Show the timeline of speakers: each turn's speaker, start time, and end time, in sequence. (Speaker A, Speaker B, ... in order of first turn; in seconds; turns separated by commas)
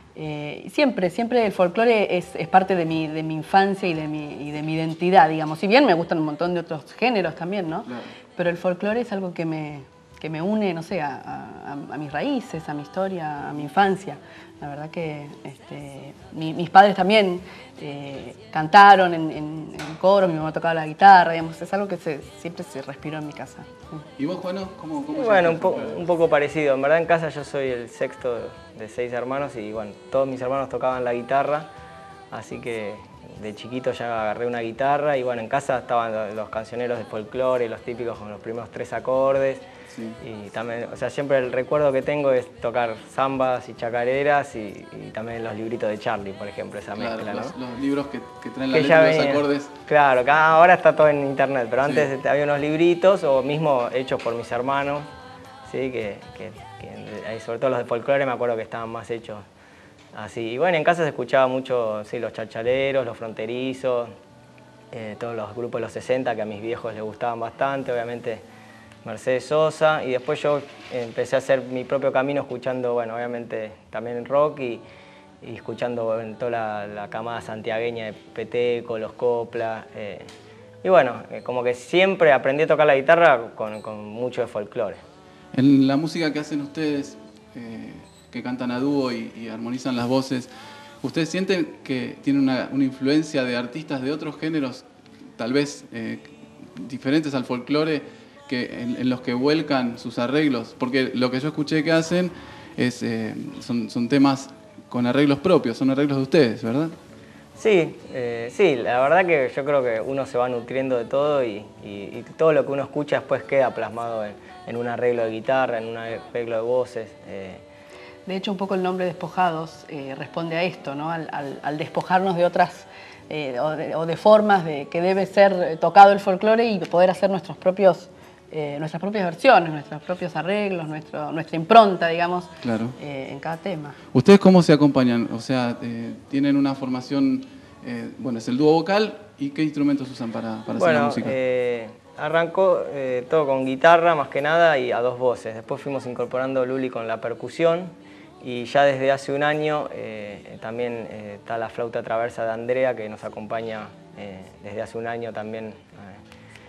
Speaker A: 0.2-24.1, Speaker B: 7.9-8.1, Speaker B: 24.2-26.0, Speaker C: 25.1-31.7, Speaker C: 32.3-39.6, Speaker B: 39.9-40.2, Speaker C: 40.2-47.5, Speaker B: 47.0-49.7, Speaker C: 48.7-55.1, Speaker B: 51.8-52.1, Speaker C: 55.7-59.5, Speaker C: 60.1-64.2, Speaker C: 64.9-68.4, Speaker C: 69.0-74.8, Speaker C: 75.4-80.3, Speaker C: 80.8-85.0, Speaker B: 85.5-90.5, Speaker B: 91.0-94.8, Speaker B: 95.4-107.0, Speaker C: 107.6-117.6, Speaker A: 118.3-134.0, Speaker B: 132.6-133.0, Speaker B: 134.1-141.4, Speaker C: 140.8-156.2